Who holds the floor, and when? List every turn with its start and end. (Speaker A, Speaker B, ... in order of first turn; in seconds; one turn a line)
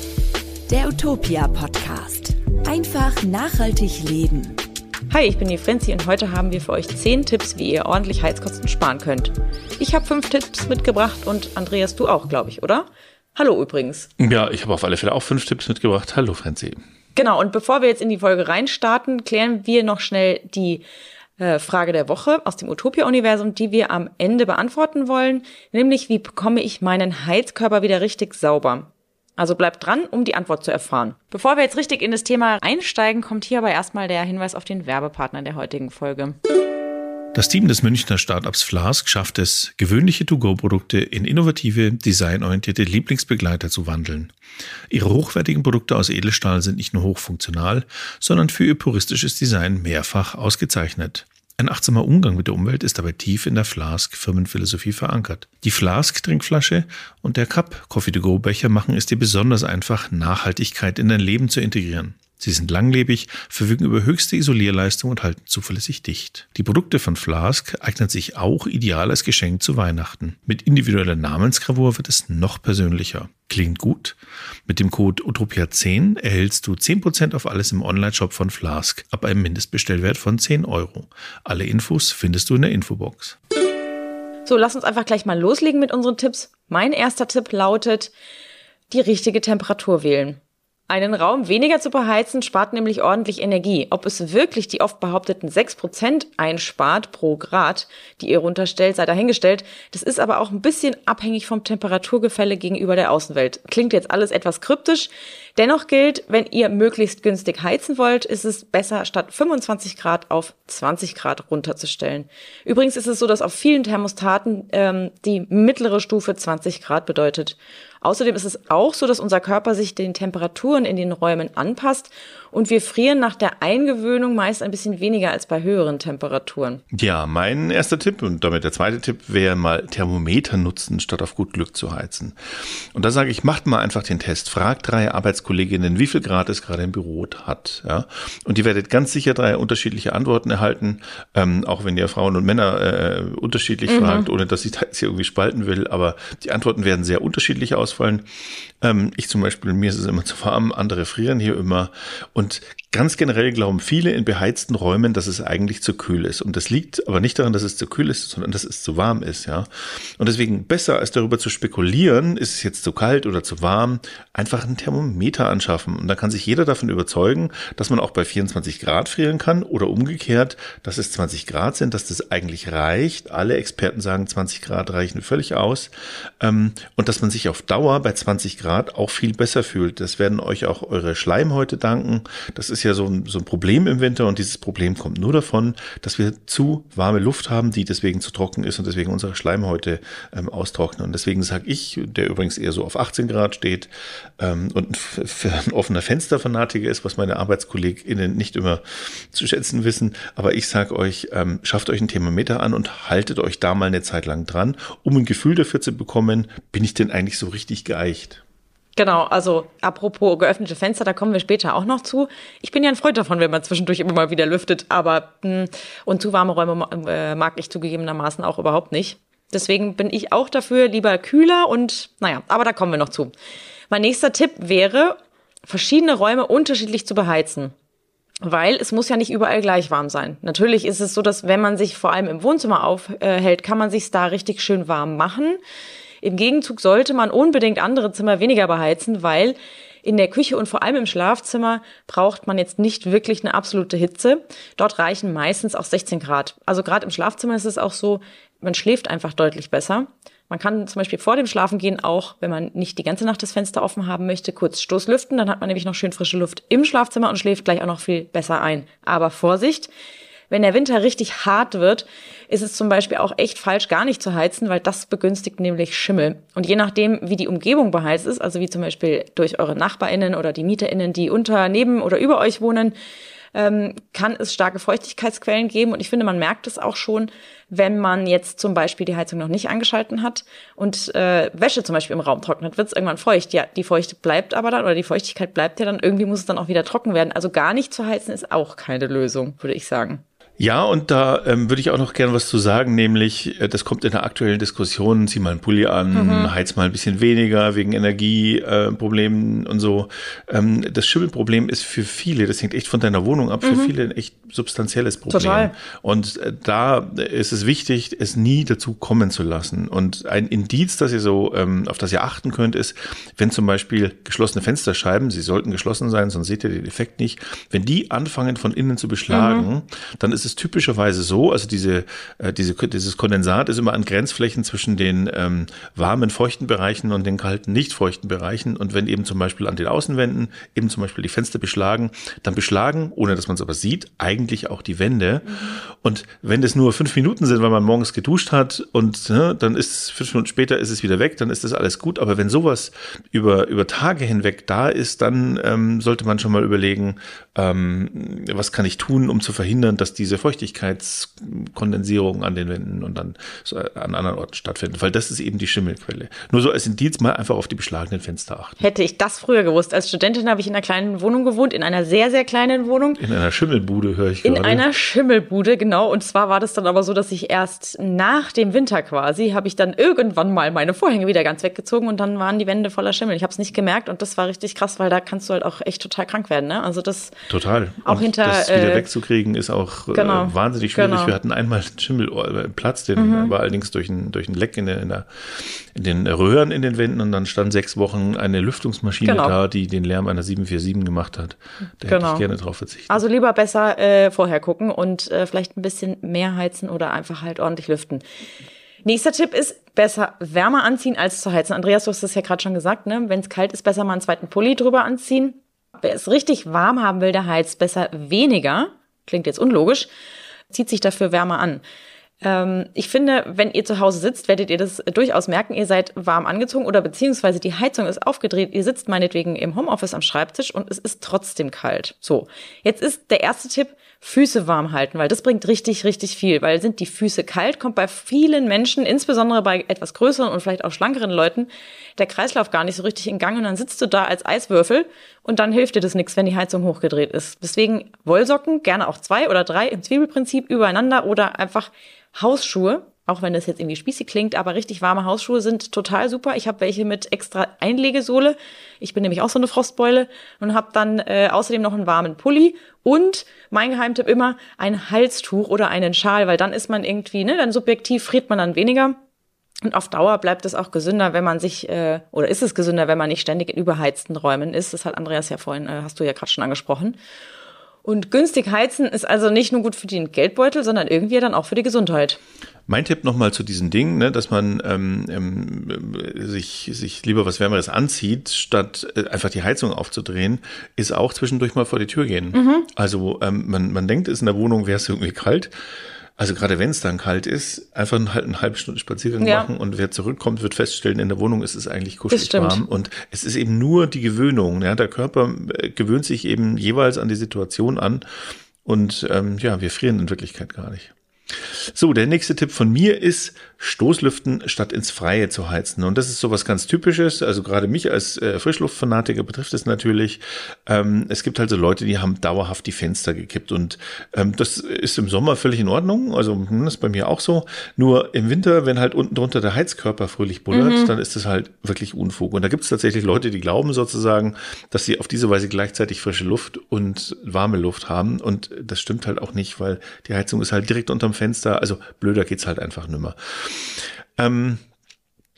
Speaker A: 0.7-4.6
Speaker B: 5.1-14.1
Speaker C: 14.2-16.8
Speaker B: 17.1-20.8
Speaker B: 21.4-36.4
Speaker C: 37.3-44.3
Speaker C: 44.9-83.4
Speaker B: 84.4-88.1
Speaker B: 88.9-126.8
Speaker C: 126.9-148.2
Speaker B: 143.9-144.3
Speaker C: 148.8-208.4
Speaker B: 209.0-223.3
Speaker B: 223.9-227.7
Speaker B: 228.4-235.6
Speaker B: 236.2-259.9
Speaker B: 260.5-272.9
Speaker B: 273.5-290.2
Speaker C: 290.6-358.8
Speaker B: 296.1-296.5
Speaker B: 303.6-303.9
Speaker B: 305.3-305.7
Speaker B: 319.3-319.7
Speaker B: 335.5-335.8
Speaker B: 358.8-363.2
Speaker C: 363.2-364.8
Speaker B: 364.4-377.3
Speaker C: 377.5-393.2
Speaker B: 378.0-379.0
Speaker B: 380.1-381.3
Speaker B: 383.1-383.5
Speaker B: 389.2-389.6
Speaker B: 392.1-392.4
Speaker B: 393.1-398.2
Speaker B: 399.0-410.1
Speaker B: 410.7-411.8
Speaker B: 412.4-459.2
Speaker B: 459.8-467.2
Speaker B: 468.0-472.4
Speaker C: 472.9-485.7
Speaker B: 482.5-482.9
Speaker C: 486.4-498.2
Speaker B: 489.4-489.7
Speaker B: 492.3-492.8
Speaker C: 498.8-534.8
Speaker B: 520.7-521.1